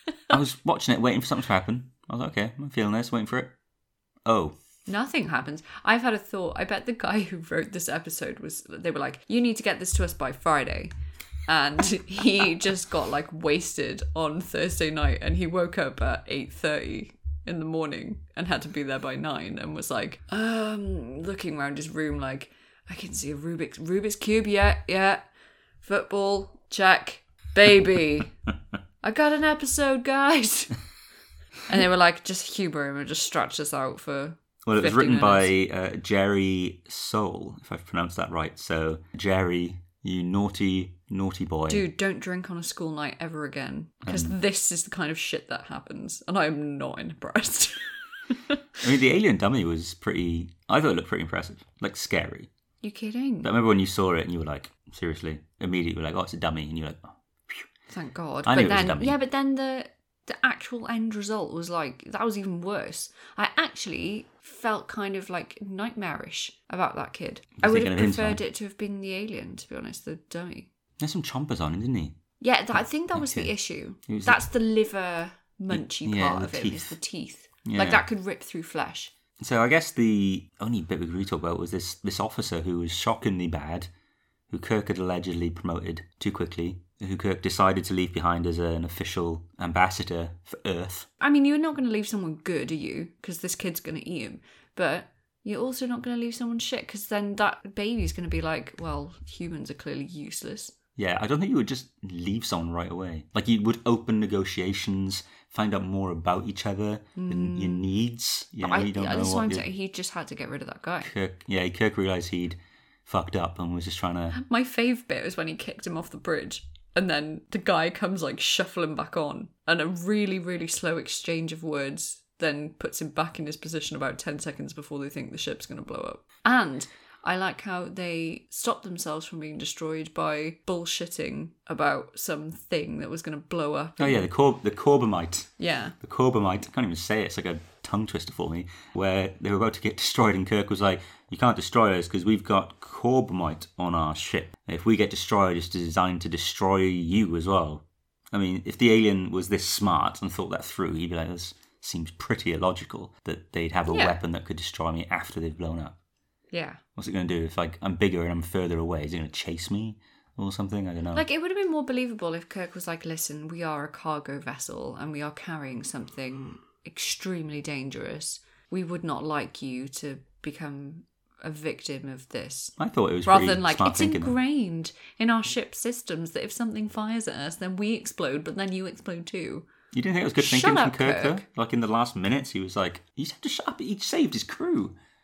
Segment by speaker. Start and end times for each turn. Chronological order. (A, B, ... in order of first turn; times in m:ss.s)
0:00.3-0:03.5 A
0:04.2-0:04.5 A
0:04.9-0:10.9 B
0:11.5-0:25.2 B
0:25.8-0:28.3 B
0:29.0-0:30.8 B
0:31.7-0:35.5 B
0:34.6-0:41.9 A
0:41.7-0:48.6 B
0:44.0-0:44.4 A
0:48.8-0:52.5 A
0:52.8-0:53.5 B
0:53.4-0:57.6 A
0:57.9-1:10.7 B
0:58.4-0:59.2 A
1:07.6-1:08.4 A
1:11.0-1:12.2 A
1:12.4-1:19.1 B
1:13.1-1:13.5 A
1:14.1-1:14.4 A
1:15.7-1:16.9 A
1:17.6-1:18.0 A
1:19.4-1:23.9 A
1:24.5-1:31.1 A
1:31.2-1:40.7 B
1:41.0-1:49.6 A
1:47.2-1:47.8 B
1:48.6-1:51.1 B
1:51.0-1:54.4 A
1:54.3-2:14.2 B
2:14.0-2:36.0 A
2:15.6-2:16.0 B
2:33.9-2:34.2 B
2:36.5-2:36.8 B
2:37.0-2:41.2 A
2:41.1-2:59.7 B
2:52.8-2:54.4 A
2:59.9-3:04.9 A
3:00.4-3:01.4 B